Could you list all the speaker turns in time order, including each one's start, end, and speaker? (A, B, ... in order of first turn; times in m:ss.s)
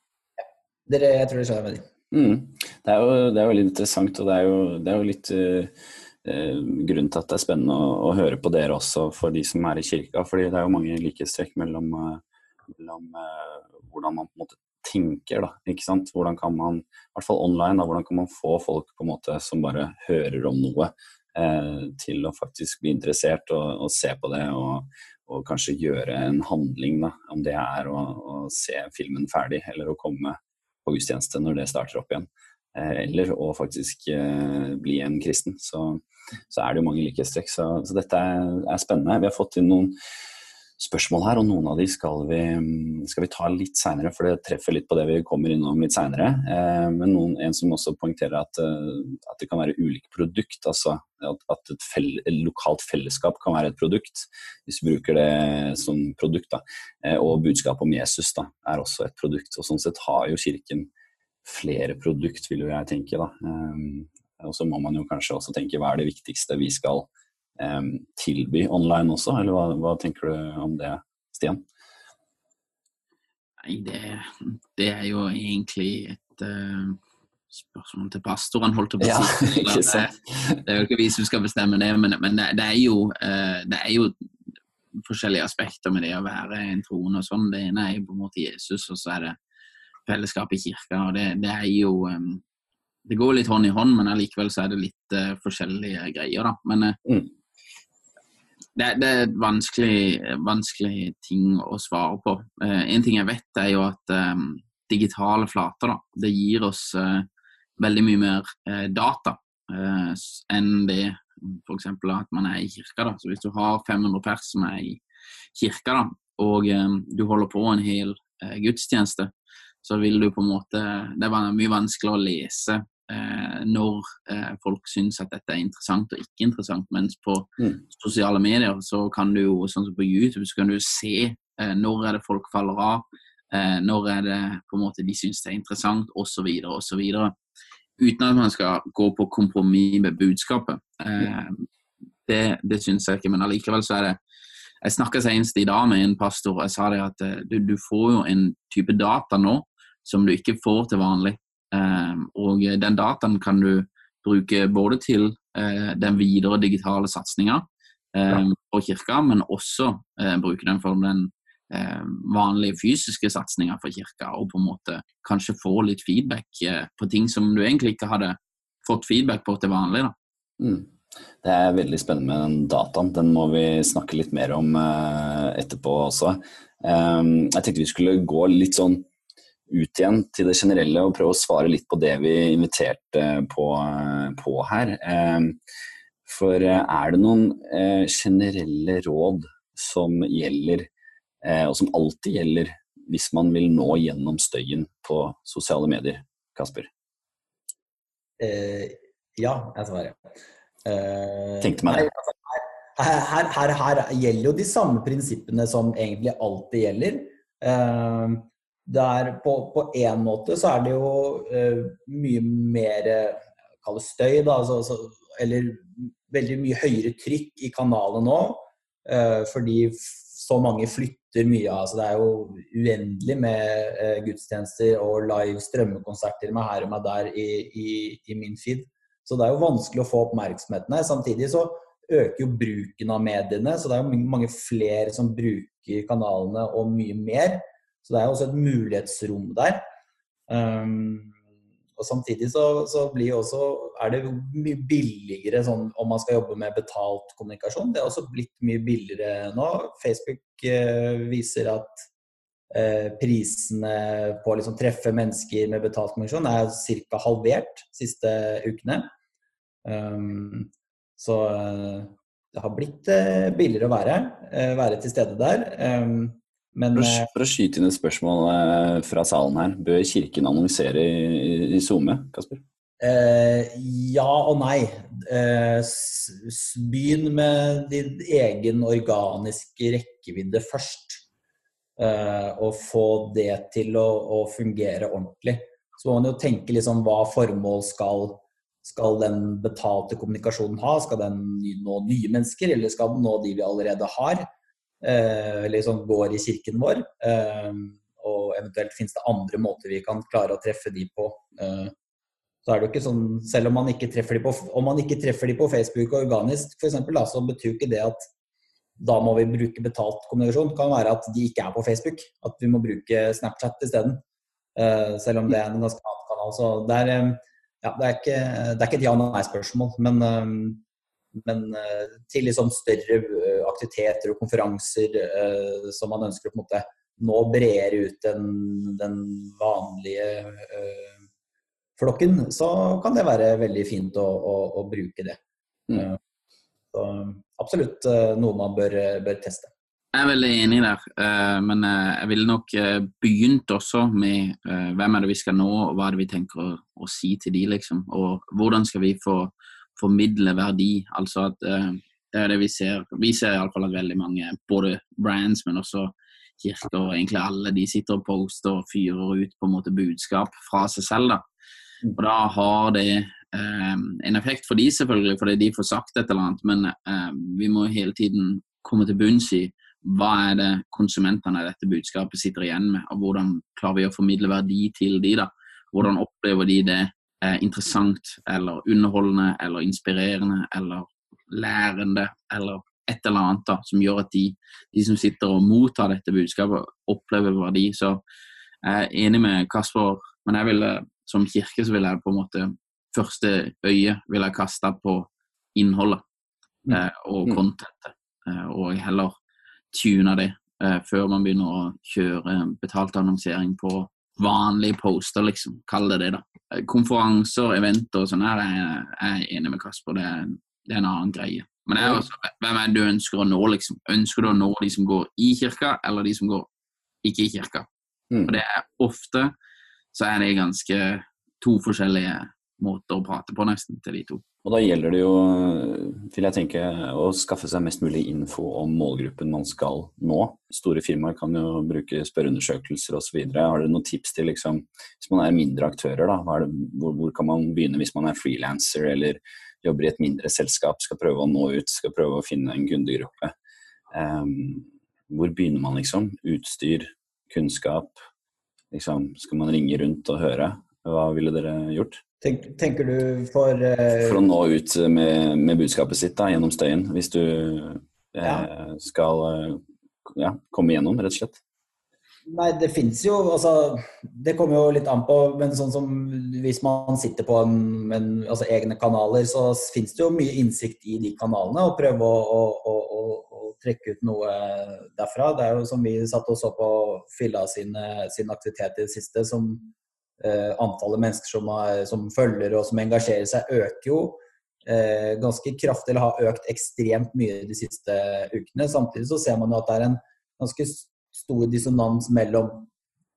0:00.4-0:01.8 A
0:02.1-0:40.0 B
0:40.8-1:00.9 B
1:01.4-1:11.6 B
1:13.6-1:17.0 C
1:17.5-1:24.1 C
1:19.0-1:20.6 B
1:25.0-1:29.4 C
1:30.0-1:32.4 C
1:33.0-1:37.0 C
1:38.8-1:47.2 C
1:47.8-1:55.0 C
1:55.6-1:59.3 C
1:59.8-2:17.3 C
2:18.0-2:21.7 C
2:22.2-2:24.2 C
2:24.8-2:50.1 C
2:50.6-2:59.0 B
2:59.7-3:05.6 B
3:06.2-3:10.9 B
3:11.4-3:16.9 B
3:18.4-3:20.2 A
3:20.8-3:59.8 A
3:21.6-3:22.1 B
4:00.5-4:01.3 A
4:02.0-4:12.0 A
4:12.7-4:19.0 A
4:19.8-4:27.3 A
4:26.9-4:32.6 B
4:33.0-4:41.2 A
4:42.0-4:54.5 A
4:55.0-5:01.9 A
5:02.6-5:08.2 A
5:09.0-5:14.2 A
5:14.8-5:20.8 A
5:21.4-5:31.1 A
5:32.0-5:35.4 A
5:35.9-5:36.2 A
5:36.9-5:39.7 A
5:40.1-6:01.4 C
6:02.1-6:28.2 C
6:28.8-6:36.2 C
6:36.9-6:39.3 C
6:39.9-6:56.7 C
6:57.2-6:57.9 C
6:58.3-6:58.6 B
6:58.4-6:59.5 C
7:00.1-7:04.4 C
7:04.6-7:23.5 B
7:24.1-7:28.2 B
7:28.9-7:32.2 B
7:32.4-7:34.4 A
7:34.2-7:41.6 B
7:42.5-8:12.9 A